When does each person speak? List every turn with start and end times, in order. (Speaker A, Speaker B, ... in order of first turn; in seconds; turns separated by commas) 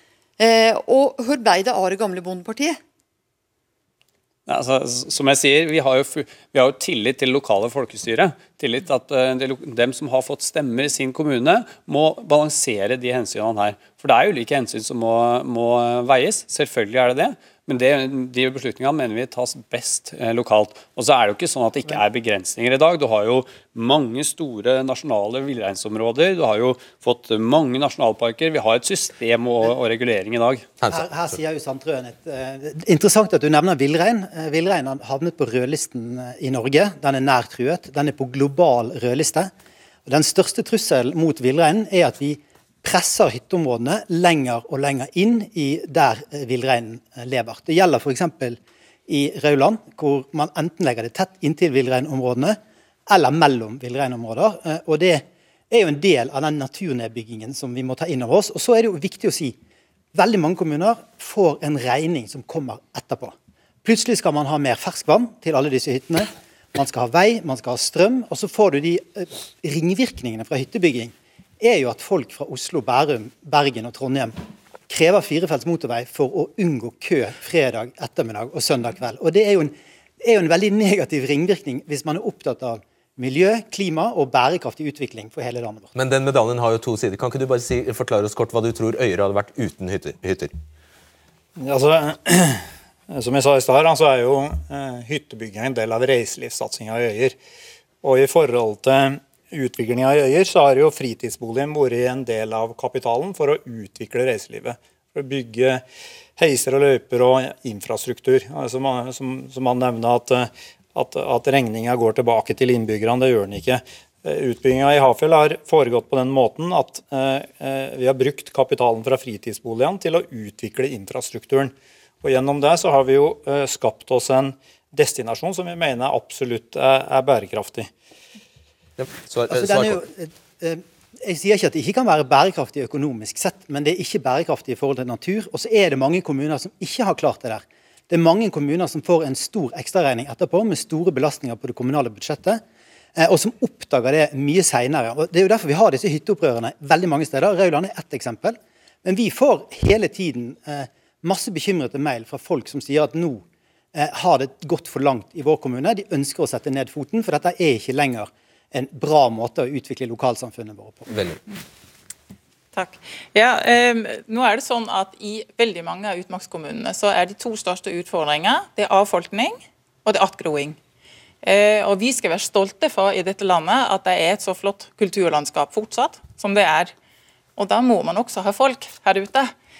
Speaker A: 0.4-2.8, Speaker B: 4.5-30.7, Speaker C: 30.9-39.5, Speaker C: 40.0-59.6, Speaker C: 60.1-74.3, Speaker C: 74.9-85.9, Speaker D: 85.9-90.5, Speaker E: 91.6-97.3, Speaker E: 98.0-105.8, Speaker E: 106.4-127.9, Speaker D: 129.0-130.0, Speaker C: 129.5-142.6, Speaker C: 143.2-161.1, Speaker D: 161.1-161.4, Speaker F: 162.7-170.8, Speaker F: 171.4-176.9, Speaker F: 177.6-179.5